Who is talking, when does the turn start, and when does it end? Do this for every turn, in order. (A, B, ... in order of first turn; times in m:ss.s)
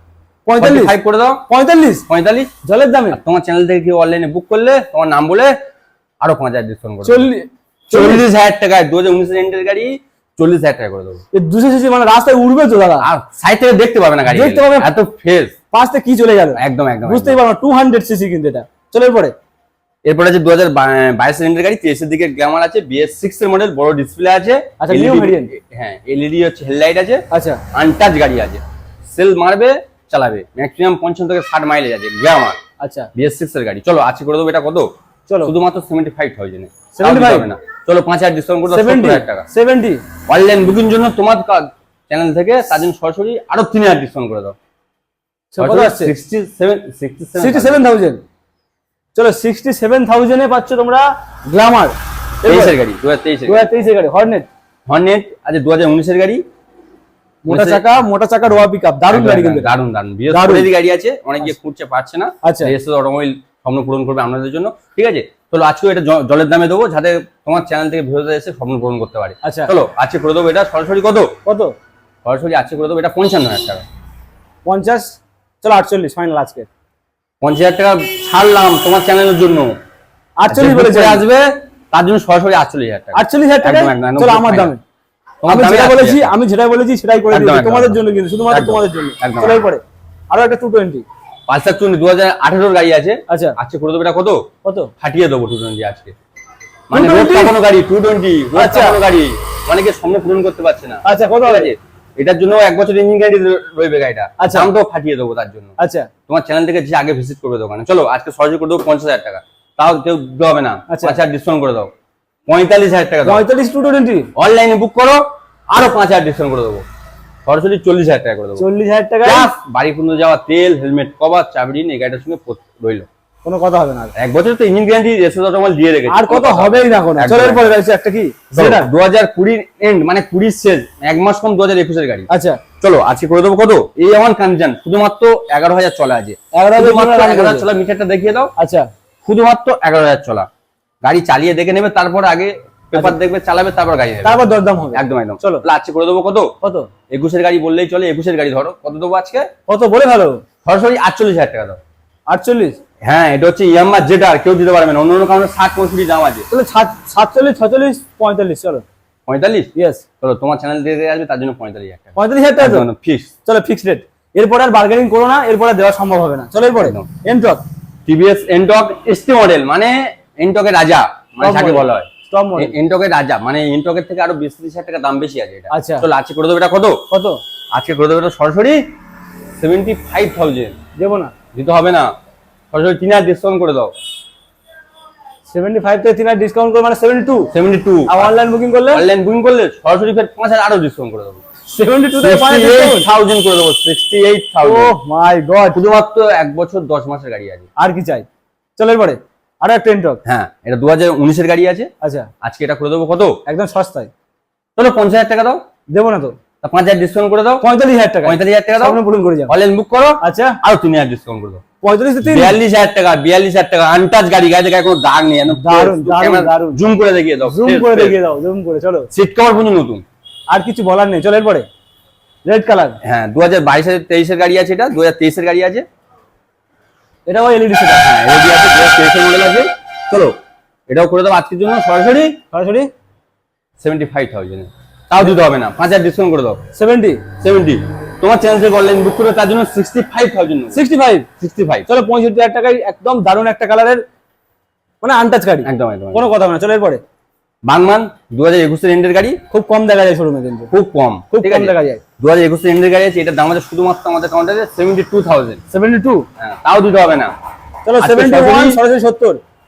0:00.5-0:01.0 A
0:00.6-0:01.4 B
0:01.5-0:02.0 A
0:02.1-0:02.5 B
0:02.6-0:03.2 A
0:03.1-0:05.5 B
0:06.2-0:07.3 B
0:07.0-0:08.3 A
0:07.9-0:11.2 B
0:11.3-0:13.1 A
0:13.0-0:15.5 B
0:14.3-0:14.9 A
0:15.7-0:19.3 A
0:16.6-0:17.4 B
0:20.1-0:32.6 B
0:24.8-0:25.5 A
0:27.3-0:27.6 A
0:32.8-0:33.1 A
0:33.2-0:34.9 B
0:35.3-0:35.5 A
0:35.4-0:39.5 B
0:37.0-0:37.5 A
0:38.7-0:40.0 A
0:40.3-0:44.6 B
0:45.5-0:46.1 A
0:45.6-0:47.8 B
0:47.4-0:48.2 A
0:49.2-0:52.8 A
0:52.4-0:53.6 B
0:53.5-0:54.5 A
0:54.9-0:56.4 B
0:57.5-0:59.8 A
0:57.5-0:57.8 B
0:59.1-1:11.4 B
1:00.3-1:00.7 A
1:02.4-1:02.7 A
1:09.4-1:09.7 A
1:11.5-1:11.7 A
1:12.2-1:13.8 B
1:14.6-1:16.7 A
1:17.4-1:19.8 B
1:20.4-1:21.2 A
1:20.5-1:24.7 B
1:23.1-1:24.8 A
1:25.4-1:26.3 B
1:25.5-1:31.0 A
1:27.3-1:29.6 B
1:31.5-1:34.5 B
1:33.3-1:33.6 A
1:34.6-1:34.9 A
1:35.0-1:36.2 B
1:36.9-1:45.7 B
1:36.9-1:37.6 A
1:38.6-1:39.0 A
1:41.0-1:41.7 A
1:44.4-1:44.7 A
1:45.8-1:46.1 A
1:46.3-1:51.9 B
1:50.9-1:51.2 A
1:52.5-1:53.4 B
1:53.2-1:54.3 A
1:54.4-1:56.8 B
1:57.5-1:58.6 B
1:58.6-1:59.5 A
1:59.2-2:03.1 B
2:03.4-2:04.1 A
2:04.2-2:07.8 B
2:06.1-2:08.9 A
2:08.5-2:12.3 B
2:12.3-2:12.6 A
2:12.8-2:18.5 B
2:16.5-2:17.7 A
2:18.6-2:18.9 A
2:19.2-2:20.5 B
2:21.0-2:26.5 B
2:24.2-2:25.6 A
2:26.6-2:26.9 A
2:27.1-2:29.5 B
2:29.7-2:30.4 A
2:30.6-2:31.8 B
2:32.3-2:32.8 A
2:33.0-2:36.5 B
2:36.5-2:38.8 A
2:39.3-2:39.7 B
2:39.8-2:40.0 A
2:40.2-2:43.3 B
2:42.2-2:42.9 A
2:43.5-2:47.6 A
2:46.8-2:47.1 B
2:48.1-2:57.0 B
2:51.4-2:52.8 A
2:55.7-2:56.1 A
2:57.1-2:57.4 A
2:57.7-2:58.8 B
2:59.6-3:00.8 B
3:01.0-3:01.3 A
3:01.5-3:02.1 B
3:02.7-3:03.9 B
3:05.5-3:07.5 A
3:07.5-3:08.4 B
3:08.1-3:09.1 A
3:08.9-3:11.4 B
3:11.7-3:13.1 A
3:12.2-3:15.0 B
3:14.6-3:15.8 A
3:15.7-3:17.6 B
3:17.8-3:18.3 A
3:18.8-3:20.2 A
3:20.2-3:21.9 B
3:22.0-3:22.3 A
3:22.4-3:23.4 B
3:23.5-3:24.1 A
3:24.8-3:25.6 B
3:25.9-3:26.4 A
3:26.6-3:27.6 B
3:27.6-3:29.5 A
3:28.2-3:31.6 B
3:30.2-3:30.6 A
3:31.8-3:32.6 A
3:32.2-3:38.2 B
3:35.5-3:36.8 A
3:37.4-3:39.1 A
3:39.1-3:40.0 B
3:40.5-3:41.7 A
3:42.4-3:43.0 A
3:43.0-3:45.8 B
3:47.3-3:48.0 A
3:48.0-3:52.4 B
3:52.5-3:52.9 A
3:53.8-3:56.6 B
3:56.8-3:57.2 A
3:57.4-4:00.8 B
4:00.7-4:01.3 A
4:01.4-4:01.9 B
4:01.9-4:04.0 A
4:05.0-4:07.0 A
4:05.6-4:06.3 B
4:07.6-4:09.4 B
4:09.5-4:10.7 A
4:10.7-4:15.6 B
4:11.3-4:12.0 A
4:15.7-4:16.3 A
4:16.4-4:17.4 B
4:17.9-4:19.4 A
4:18.0-4:18.8 B